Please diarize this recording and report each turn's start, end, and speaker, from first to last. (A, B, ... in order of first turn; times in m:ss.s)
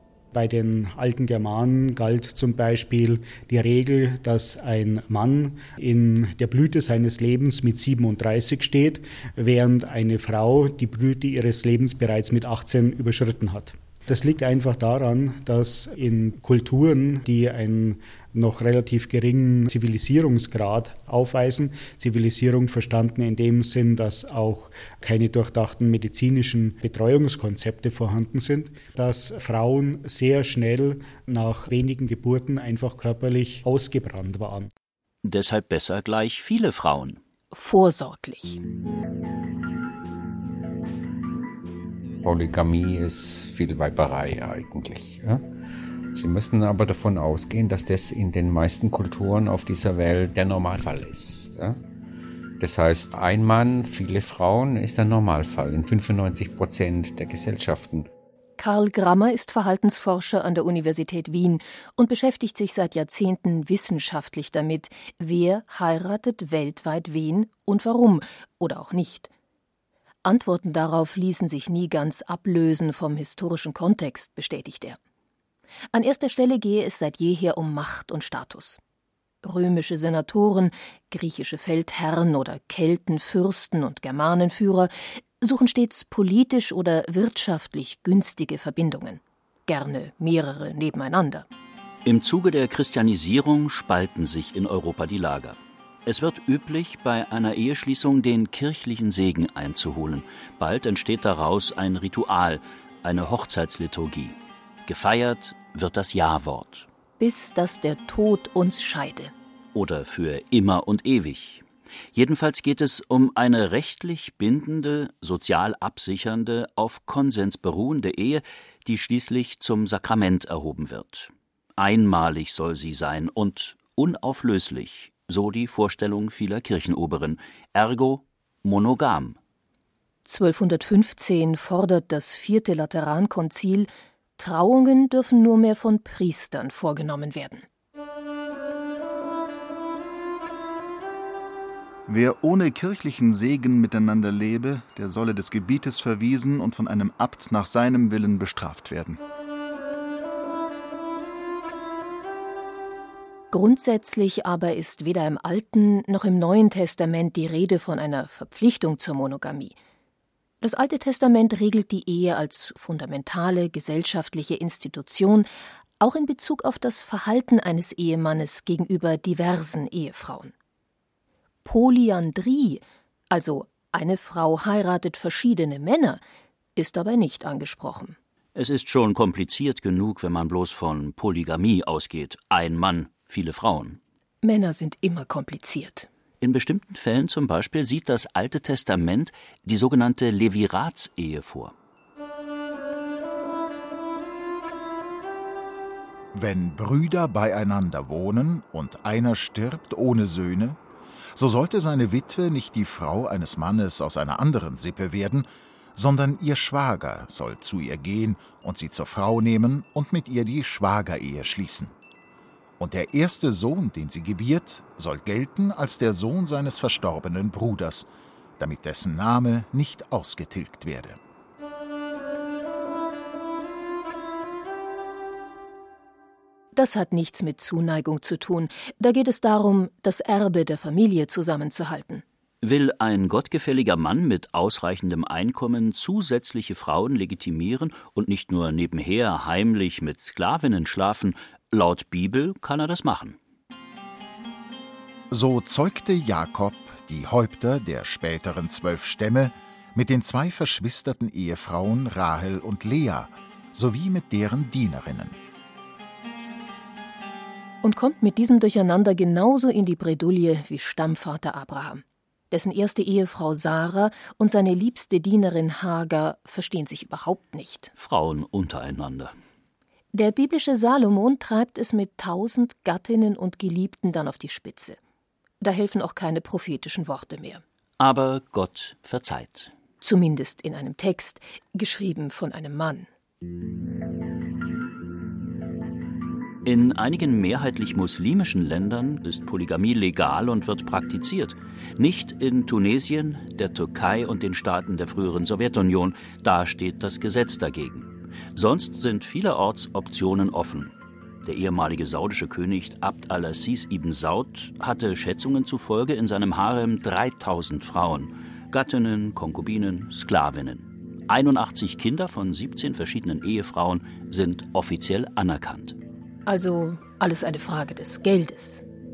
0:00.3-0:34.7 A
0:35.2-0:37.2 B
0:37.5-0:38.6 C
0:42.2-0:45.4 D
0:46.1-0:51.8 D
0:52.6-0:58.1 D
0:58.6-1:09.3 C
1:10.2-1:15.0 C
1:15.9-1:18.8 C
1:19.4-1:31.4 C
1:32.0-1:46.9 B
1:47.2-1:49.3 C
1:49.7-2:09.4 B
2:10.2-2:17.6 C
2:22.1-2:29.2 E
2:33.5-2:39.7 C
2:40.6-2:45.5 C
2:46.0-2:50.5 C
2:51.6-2:56.2 C
2:56.8-2:58.2 C
2:58.5-3:04.0 B
3:04.4-3:06.1 C
3:06.4-3:11.7 B
3:16.3-3:20.8 F
3:21.3-3:31.9 F
3:32.8-3:41.2 F
3:46.7-3:52.2 C
3:52.6-4:03.4 B
4:05.3-4:15.4 F
4:17.8-4:27.9 C
4:28.0-4:29.3 B
4:30.1-4:35.0 C
4:35.6-4:37.6 C
4:38.0-4:39.7 B
4:40.0-4:43.1 C
4:46.6-5:16.0 B
5:16.4-5:18.8 C